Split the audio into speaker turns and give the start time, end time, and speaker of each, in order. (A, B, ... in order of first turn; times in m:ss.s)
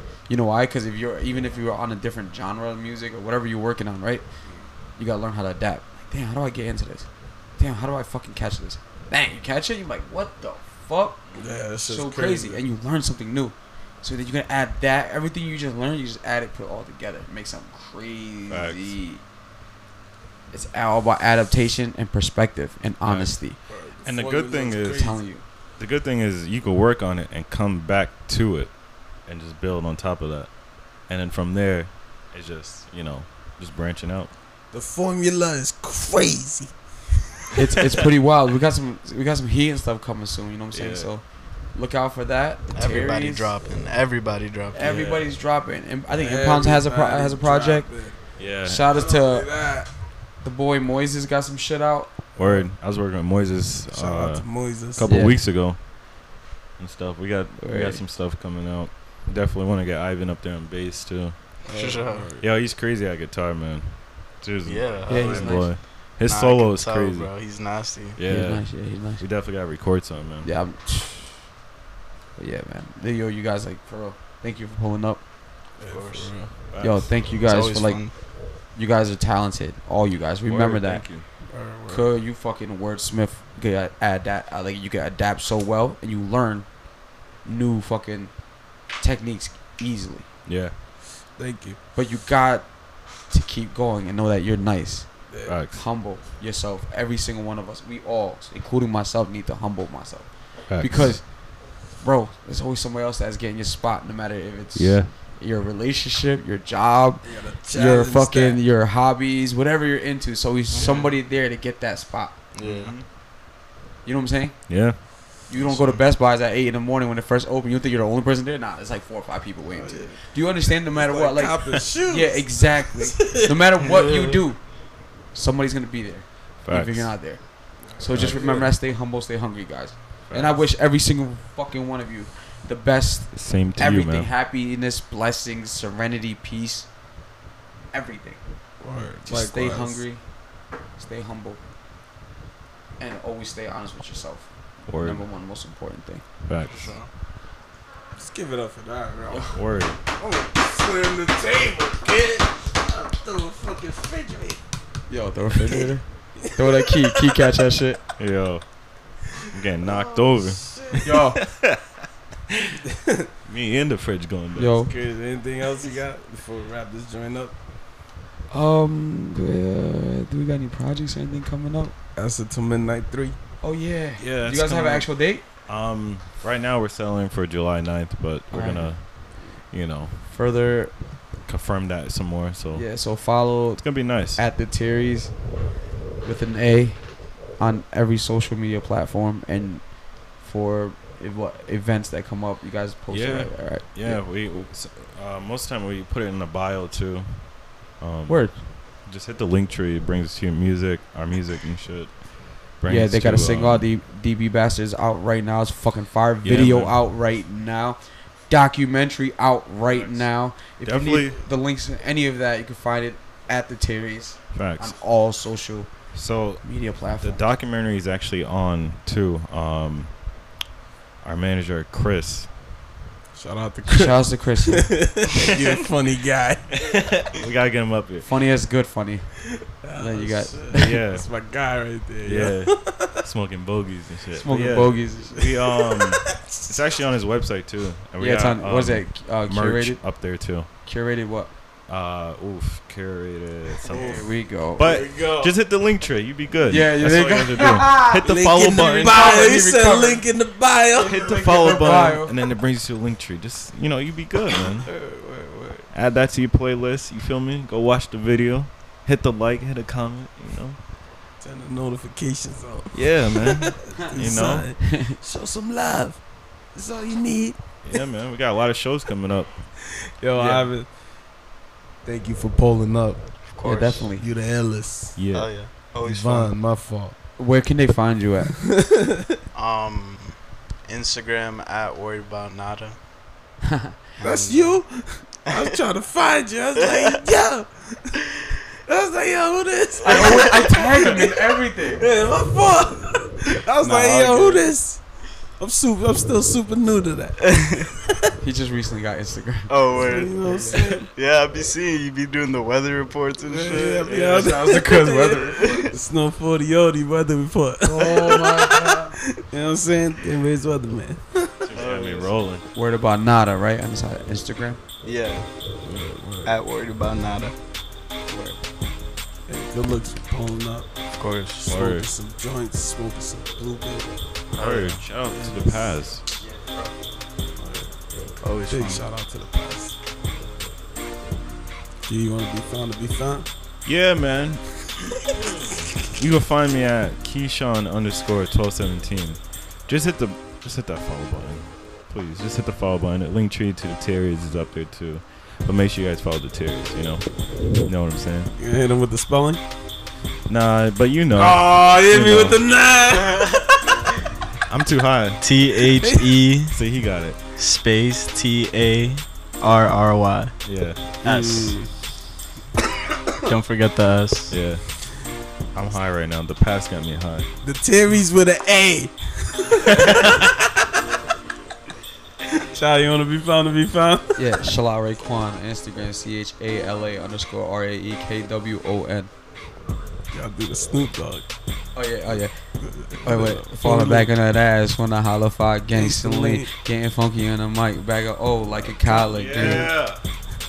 0:00.3-0:04.2 A
0:04.4-0:04.7 B
0:05.0-0:11.2 A
0:11.4-0:12.6 B
0:11.8-0:19.2 A
0:18.5-0:19.0 C
0:20.5-0:23.6 A
0:23.0-0:23.4 C
0:23.7-0:25.2 B
0:24.0-0:25.1 C
0:24.9-0:25.4 A
0:25.8-0:30.5 C
0:31.0-0:34.3 C
0:34.7-0:37.6 B
0:37.6-0:43.5 A
0:40.7-0:41.1 C
0:42.8-0:44.8 D
0:44.7-0:47.9 A
0:44.8-0:45.3 C
0:46.2-0:48.4 B
0:48.4-0:48.9 C
0:48.6-0:49.6 A
0:48.9-0:49.9 B
0:50.4-0:52.2 A
0:52.4-0:55.9 C
0:52.4-0:52.7 B
0:53.9-0:55.1 B
0:55.1-0:55.4 A
0:56.8-1:01.4 C
0:57.6-0:58.0 A
1:01.6-1:02.5 B
1:01.7-1:02.3 D
1:02.4-1:07.3 C
1:04.6-1:08.2 D
1:05.1-1:05.7 A
1:08.2-1:10.5 C
1:08.3-1:09.2 A
1:10.4-1:11.4 A
1:12.4-1:15.2 A
1:15.8-1:16.5 B
1:15.9-1:16.3 D
1:16.7-1:17.2 C
1:16.8-1:21.2 A
1:17.4-1:18.1 D
1:20.4-1:21.3 C
1:21.5-1:22.1 B
1:21.9-1:26.7 A
1:27.4-1:28.4 A
1:28.9-1:30.3 A
1:30.5-1:30.7 C
1:31.4-1:31.8 B
1:32.0-1:35.1 A
1:35.3-1:35.6 B
1:35.5-1:35.8 C
1:35.7-1:52.4 A
1:40.7-1:41.1 C
1:44.8-1:45.1 C
1:47.2-1:48.6 B
1:50.7-1:51.1 D
1:50.8-1:51.0 B
1:52.5-1:52.9 D
1:52.6-1:53.1 C
1:54.0-2:04.7 A
1:54.7-1:55.0 C
1:59.7-2:00.2 B
2:00.9-2:03.6 B
2:03.8-2:04.4 D
2:05.3-2:16.9 A
2:06.6-2:07.2 C
2:07.8-2:08.7 B
2:08.1-2:08.4 C
2:10.3-2:10.6 C
2:13.3-2:14.3 C
2:17.9-2:18.4 A
2:18.8-2:20.0 B
2:19.2-2:20.2 A
2:21.0-2:21.6 A
2:23.0-2:26.2 A
2:24.9-2:25.3 C
2:26.5-2:26.9 C
2:26.6-2:27.1 D
2:28.2-2:29.6 B
2:29.3-2:29.6 A
2:29.5-2:30.0 C
2:30.2-2:34.6 B
2:35.1-2:38.0 A
2:35.7-2:37.4 B
2:38.2-2:38.6 C
2:39.5-2:41.8 C
2:39.8-2:41.1 B
2:41.0-2:41.4 A
2:42.9-2:43.3 B
2:43.5-2:44.9 C
2:44.6-2:44.9 A
2:44.9-2:47.5 B
2:48.5-2:51.9 A
2:52.2-2:53.4 B
2:53.6-2:55.4 A
2:54.2-2:55.1 C
2:55.7-3:00.3 C
2:58.5-2:58.9 A
3:00.3-3:00.9 A
3:01.4-3:02.9 C
3:02.7-3:05.4 A
3:03.8-3:04.4 C
3:06.2-3:14.2 A
3:13.1-3:23.8 C
3:18.3-3:18.6 A
3:22.9-3:35.9 A
3:26.4-3:27.0 C
3:30.8-3:31.4 C
3:34.5-3:35.0 C
3:36.1-3:40.1 C
3:36.6-3:37.4 A
3:41.2-3:42.5 C
3:43.4-3:46.9 B
3:43.9-3:45.0 A
3:46.8-3:48.3 C
3:48.2-3:49.4 A
3:49.7-3:53.2 B
3:50.0-3:51.0 A
3:50.7-3:51.3 C
3:52.2-4:00.7 C
3:54.4-3:55.5 A
3:55.3-3:56.8 B
3:58.2-4:00.0 A
4:00.8-4:01.5 A
4:01.9-4:09.5 C
4:03.8-4:05.6 B
4:03.9-4:04.9 A
4:06.7-4:10.2 A
4:08.2-4:11.4 B
4:11.0-4:12.4 A
4:11.0-4:14.9 C
4:14.7-4:15.9 B
4:15.9-4:20.8 C
4:21.4-4:26.2 B
4:22.9-4:24.7 C
4:24.1-4:25.2 A
4:26.7-4:28.0 B
4:27.8-4:29.6 C
4:30.2-4:30.9 B
4:30.4-4:30.7 A
4:32.0-4:33.2 B
4:33.4-4:34.1 D
4:33.6-4:34.3 A
4:34.2-4:35.2 B
4:35.2-4:35.6 C
4:35.3-4:36.6 D
4:36.0-4:37.2 B
4:37.4-4:38.6 A
4:38.8-4:39.2 B
4:39.5-4:43.0 D
4:43.7-4:43.9 A
4:44.2-4:44.8 D
4:44.2-4:48.2 B
4:46.8-4:47.2 D
4:48.9-4:55.0 B
4:50.0-4:52.1 A
4:50.1-4:50.5 D
4:53.8-4:54.7 D
4:55.6-4:58.1 B
4:57.4-4:57.9 D
4:58.4-5:00.9 A
4:59.7-5:04.2 D
5:00.0-5:01.1 B
5:03.5-5:11.2 B
5:04.1-5:04.5 C
5:04.1-5:05.9 A
5:07.8-5:09.2 A
5:11.6-5:12.7 C
5:11.8-5:12.4 D
5:12.7-5:14.8 A
5:15.0-5:15.5 D
5:15.8-5:16.5 B
5:16.4-5:17.6 D
5:19.5-5:20.9 B
5:21.1-5:21.7 D
5:21.6-5:24.1 B
5:21.6-5:22.1 C
5:24.5-5:25.0 D
5:24.6-5:26.2 C
5:25.3-5:25.9 B
5:26.4-5:26.9 A
5:27.6-5:28.0 B
5:28.4-5:29.0 D
5:28.7-5:30.0 B
5:32.0-5:33.5 B
5:33.8-5:34.7 C
5:36.1-5:48.5 C
5:48.6-5:49.6 B
5:50.5-5:52.6 C
5:51.3-5:54.0 B
5:54.7-5:55.4 C
5:55.4-5:56.8 D
5:56.0-5:56.4 B
5:56.7-5:57.4 C
5:57.6-6:00.6 D
6:00.6-6:01.0 C
6:01.2-6:01.8 D
6:01.2-6:01.9 B
6:03.4-6:04.6 D
6:04.5-6:04.9 C
6:05.7-6:07.5 C
6:07.6-6:10.7 B
6:12.5-6:14.3 B
6:14.4-6:19.3 A
6:20.3-6:21.4 B
6:22.0-6:22.6 A
6:22.8-6:24.3 B
6:23.2-6:29.9 A
6:25.9-6:26.7 B
6:29.1-6:30.2 C
6:29.4-6:29.9 B